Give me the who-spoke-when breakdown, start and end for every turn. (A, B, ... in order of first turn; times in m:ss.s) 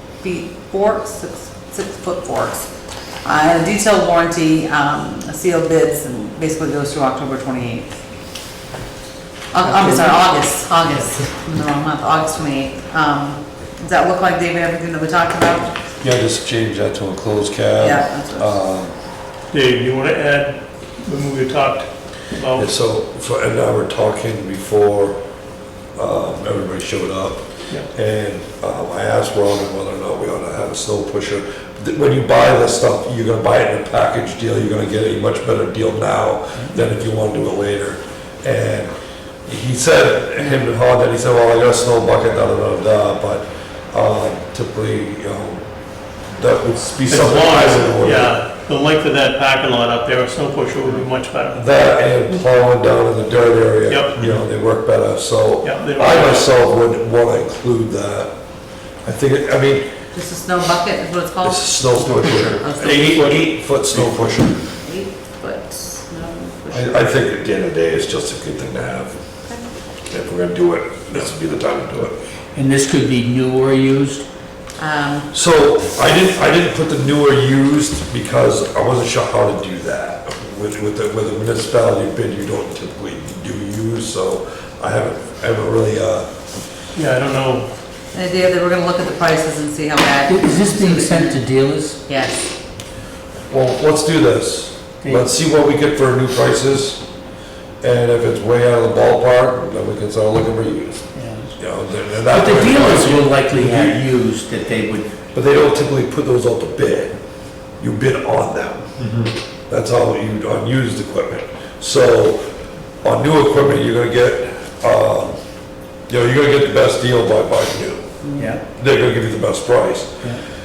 0:00.2-0:02.7 A
0:03.2-0:07.9 A
0:09.5-0:15.7 A
0:09.6-0:10.2 B
0:16.0-0:18.9 C
0:17.8-0:18.6 A
0:19.5-0:22.7 D
0:22.5-0:25.2 C
0:26.0-0:38.9 C
0:39.4-0:45.7 C
0:40.4-0:40.7 A
0:46.3-0:48.3 C
0:47.1-0:51.6 D
0:51.5-0:58.3 C
0:53.9-0:54.4 D
0:55.6-0:56.5 D
0:59.0-0:59.8 C
1:00.1-1:01.9 A
1:01.4-1:04.6 C
1:02.0-1:04.0 B
1:02.5-1:03.3 A
1:04.8-1:07.1 A
1:06.7-1:09.2 C
1:10.1-1:12.2 C
1:12.5-1:14.2 B
1:14.8-1:15.3 A
1:15.3-1:26.3 C
1:26.9-1:27.7 D
1:28.1-1:31.4 A
1:30.2-1:32.0 B
1:32.0-1:32.5 A
1:33.5-1:37.0 C
1:37.8-1:41.0 C
1:41.1-1:41.5 B
1:41.6-1:44.0 C
1:42.3-1:45.1 B
1:45.3-1:47.2 C
1:47.8-1:52.4 C
1:53.0-1:55.4 C
1:56.1-1:58.1 C
1:58.2-1:58.5 A
1:58.4-1:58.6 B
1:58.8-2:00.1 C